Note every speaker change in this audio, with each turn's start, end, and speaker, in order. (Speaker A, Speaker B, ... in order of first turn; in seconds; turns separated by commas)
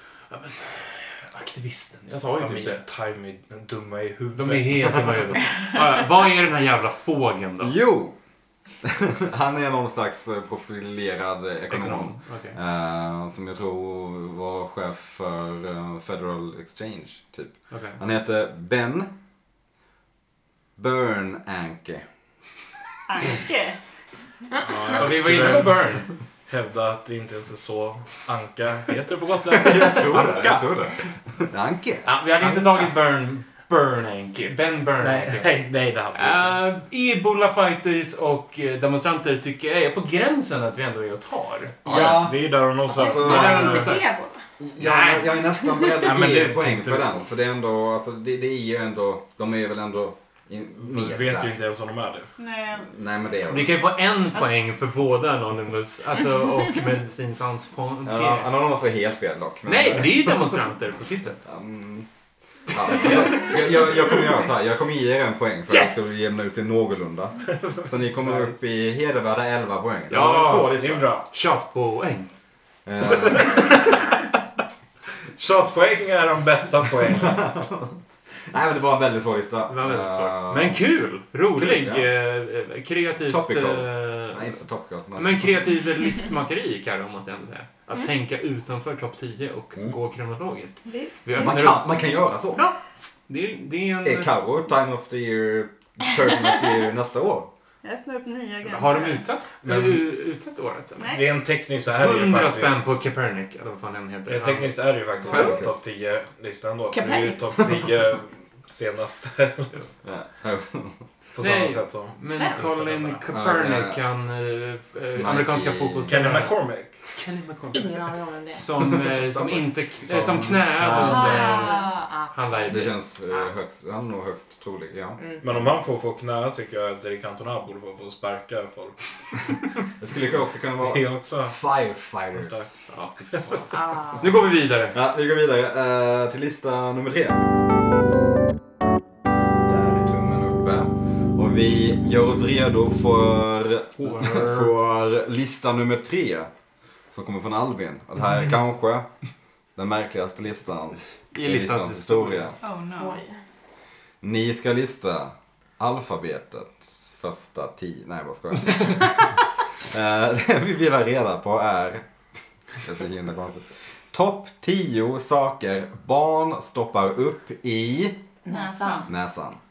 Speaker A: 0.3-2.8, Speaker B: 2.4-5.4, Speaker A: 4.3-7.8, Speaker C: 7.6-8.2, Speaker C: 8.8-19.1, Speaker A: 11.7-12.6, Speaker A: 17.7-18.0, Speaker C: 20.8-22.1, Speaker D: 23.1-23.8, Speaker B: 24.6-30.7, Speaker A: 24.9-26.1, Speaker C: 29.5-32.1, Speaker A: 32.0-35.5, Speaker B: 32.4-32.8, Speaker B: 35.0-36.6, Speaker A: 36.1-42.1, Speaker C: 41.8-43.9, Speaker B: 41.9-43.9, Speaker E: 42.9-44.4, Speaker A: 43.0-44.0, Speaker C: 44.6-51.5, Speaker A: 44.8-45.4, Speaker B: 46.0-47.2, Speaker B: 50.8-52.3, Speaker D: 52.4-52.9, Speaker C: 52.9-53.8, Speaker A: 53.5-58.5, Speaker C: 58.0-60.4, Speaker A: 59.6-61.4, Speaker C: 61.4-62.1, Speaker C: 62.7-71.1, Speaker A: 65.7-66.1, Speaker B: 68.2-68.5, Speaker A: 70.1-72.3, Speaker B: 70.7-71.2, Speaker C: 72.8-73.9, Speaker B: 75.4-77.5, Speaker C: 77.2-78.0, Speaker C: 78.5-80.8, Speaker A: 79.7-84.6, Speaker C: 81.5-82.0, Speaker C: 83.3-85.6, Speaker A: 85.1-91.9, Speaker D: 90.8-91.5, Speaker C: 91.4-92.6, Speaker A: 92.5-94.3, Speaker C: 94.0-97.5, Speaker D: 97.8-99.2, Speaker A: 98.7-101.0, Speaker B: 99.6-100.0, Speaker D: 101.0-101.2, Speaker B: 101.0-103.0, Speaker A: 101.9-104.9, Speaker B: 104.3-109.7, Speaker C: 105.3-105.8, Speaker E: 106.9-107.5, Speaker C: 110.0-111.0, Speaker B: 111.3-113.2, Speaker A: 111.4-122.9, Speaker E: 112.3-112.6, Speaker C: 113.3-114.0, Speaker C: 115.2-116.4, Speaker B: 116.0-117.1, Speaker E: 117.7-118.6, Speaker C: 119.2-120.5, Speaker B: 120.1-121.7, Speaker E: 120.9-122.8, Speaker C: 122.7-125.2, Speaker B: 125.4-129.0, Speaker C: 130.0-132.8, Speaker B: 130.8-131.6, Speaker B: 132.3-132.7, Speaker A: 132.9-135.0, Speaker E: 133.7-134.2, Speaker C: 134.9-137.4, Speaker C: 139.6-146.5, Speaker A: 144.0-144.7, Speaker C: 147.1-149.1, Speaker C: 149.8-152.6, Speaker A: 151.3-152.6, Speaker D: 152.6-153.2, Speaker E: 153.0-153.4, Speaker C: 154.2-162.0, Speaker C: 162.8-168.2, Speaker E: 168.4-169.1, Speaker D: 168.5-169.1, Speaker C: 169.1-169.6